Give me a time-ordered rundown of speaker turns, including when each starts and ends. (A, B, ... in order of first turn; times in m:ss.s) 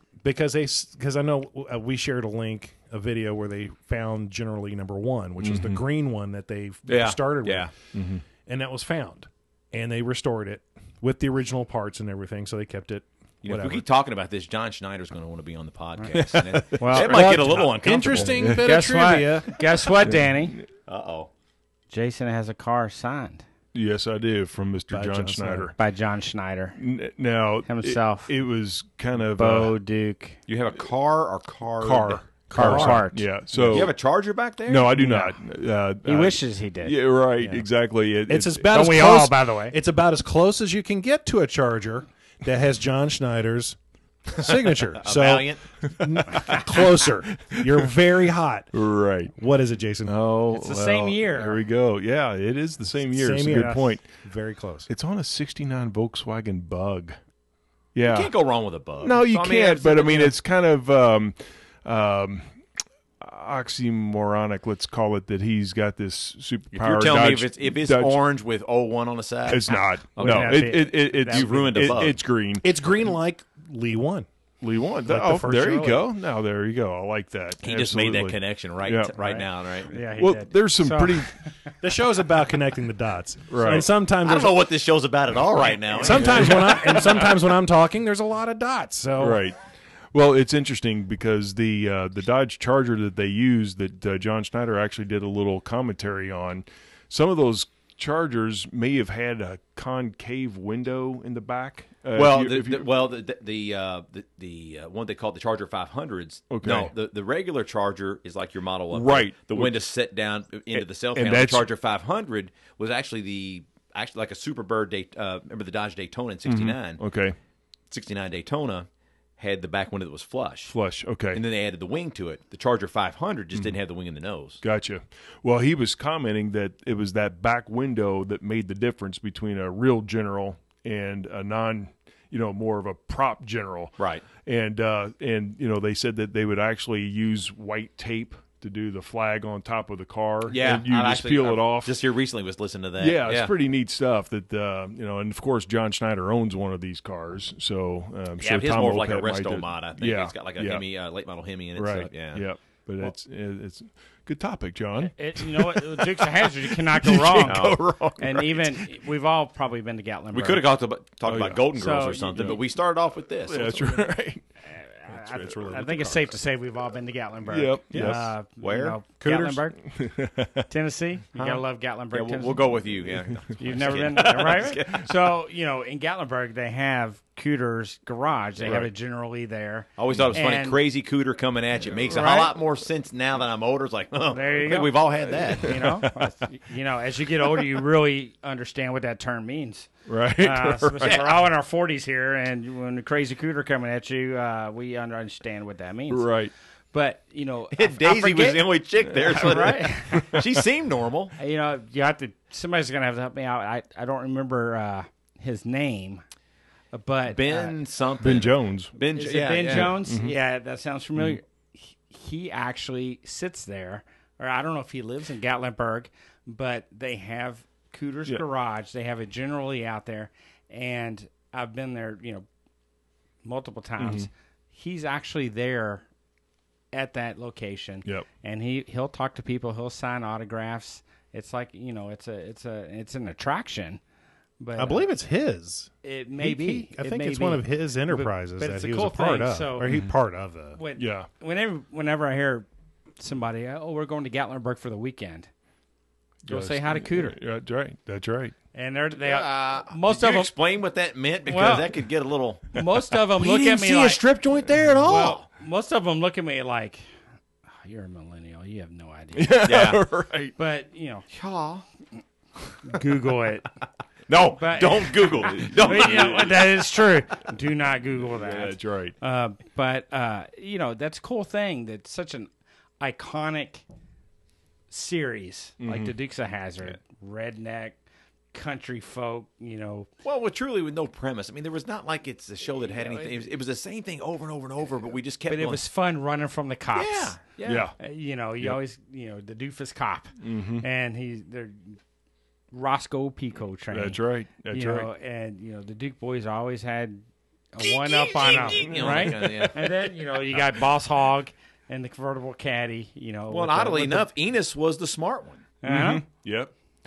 0:00.2-0:07.7 A
0:05.4-0:05.8 B
0:06.9-0:07.7 C
0:07.9-0:08.2 B
0:08.4-0:13.8 A
0:13.4-0:18.5 C
0:16.1-0:16.9 B
0:16.8-0:17.7 D
0:16.9-0:19.6 A
0:18.1-0:18.7 B
0:18.4-0:20.6 D
0:20.0-0:20.6 B
0:20.8-0:21.3 C
0:21.9-0:23.4 D
0:23.7-0:25.7 B
0:24.9-0:25.7 A
0:25.8-0:26.8 D
0:26.8-0:29.7 B
0:27.6-0:28.3 D
0:29.3-0:30.4 D
0:30.5-0:32.4 C
0:31.8-0:34.0 B
0:32.5-0:33.3 D
0:32.5-0:33.9 A
0:33.7-0:34.9 C
0:34.7-0:38.8 B
0:34.9-0:35.3 A
0:36.0-0:37.0 D
0:38.3-0:48.7 A
0:38.7-0:39.8 D
0:44.4-0:45.8 C
0:46.0-0:46.7 B
0:47.4-0:47.9 B
0:48.7-0:49.3 B
0:49.3-0:50.1 A
0:50.0-0:54.1 B
0:50.5-0:51.6 D
0:53.0-0:54.9 A
0:54.9-0:57.2 B
0:57.9-0:58.3 B
0:58.0-1:00.4 C
0:59.0-1:02.6 B
1:03.2-1:08.2 B
1:06.7-1:12.2 C
1:09.5-1:12.7 B
1:10.2-1:12.0 D
1:12.6-1:14.3 A
1:14.6-1:19.2 B
1:15.0-1:16.1 A
1:17.6-1:19.9 C
1:19.2-1:21.7 D
1:19.9-1:21.3 B
1:21.8-1:24.7 A
1:23.5-1:23.9 B
1:24.2-1:27.0 C
1:25.9-1:29.4 A
1:26.0-1:27.2 B
1:29.2-1:29.6 B
1:30.1-1:42.9 B
1:42.1-1:57.0 C
1:46.5-1:46.9 B
1:48.9-1:49.8 B
1:50.7-1:51.7 B
1:56.4-1:57.4 B
1:57.9-2:00.7 C
2:00.7-2:01.4 B
2:01.3-2:04.6 C
2:04.6-2:22.0 B
2:14.0-2:14.2 C
2:20.5-2:23.5 C
2:23.0-2:30.8 B
2:28.4-2:32.4 C
2:31.7-2:38.5 B
2:35.0-2:40.6 D
2:37.4-2:38.2 C
2:40.3-2:44.0 C
2:41.2-2:42.6 B
2:41.7-2:42.4 D
2:43.4-2:44.4 B
2:44.7-2:49.8 D
2:45.1-2:46.2 B
2:47.5-2:48.3 B
2:47.9-2:49.0 C
2:49.2-2:49.6 A
2:49.8-2:50.7 B
2:50.7-2:52.8 D
2:51.4-2:55.3 C
2:53.3-2:53.5 B
2:53.6-3:00.8 D
3:00.0-3:05.9 C
3:02.1-3:02.4 B
3:02.2-3:02.5 D
3:04.3-3:16.4 D
3:05.3-3:06.2 B
3:10.1-3:11.2 B
3:11.0-3:11.4 C
3:16.1-3:16.5 B
3:16.9-3:20.4 D
3:17.7-3:21.3 C
3:20.1-3:20.4 B
3:21.4-3:26.2 D
3:26.9-3:27.8 D
3:27.3-3:30.0 C
3:28.2-3:28.9 B
3:29.1-3:42.4 D
3:29.7-3:30.3 B
3:43.4-3:46.0 D
3:44.0-3:44.3 B
3:46.9-3:54.0 D
3:54.6-3:55.1 D
3:54.8-4:00.8 A
3:56.0-3:59.9 D
4:00.7-4:02.7 D
4:01.0-4:01.3 B
4:03.2-4:05.5 D
4:06.4-4:08.5 B
4:06.5-4:07.4 D
4:08.7-4:10.5 D
4:09.2-4:15.4 C
4:11.4-4:12.0 D
4:12.7-4:14.2 D
4:15.0-4:17.0 D
4:17.7-4:19.7 D
4:19.3-4:20.5 B
4:19.6-4:20.0 C
4:20.6-4:21.2 D
4:21.3-4:21.8 C
4:22.8-4:23.7 D
4:24.3-4:26.6 C
4:24.5-4:32.5 D
4:25.5-4:26.6 B
4:28.2-4:29.2 B
4:33.0-4:33.8 D
4:34.9-4:38.0 D
4:35.8-4:36.1 B
4:38.5-4:40.1 D
4:40.2-4:45.8 C
4:45.5-4:52.0 D
4:46.9-4:47.9 C
4:47.6-4:48.0 B
4:50.4-4:50.8 B
4:52.7-5:04.3 D
4:53.9-4:55.1 B
4:57.8-5:00.2 C
4:58.8-4:59.7 B
5:03.5-5:05.6 C
5:05.8-5:06.2 D
5:05.8-5:06.7 B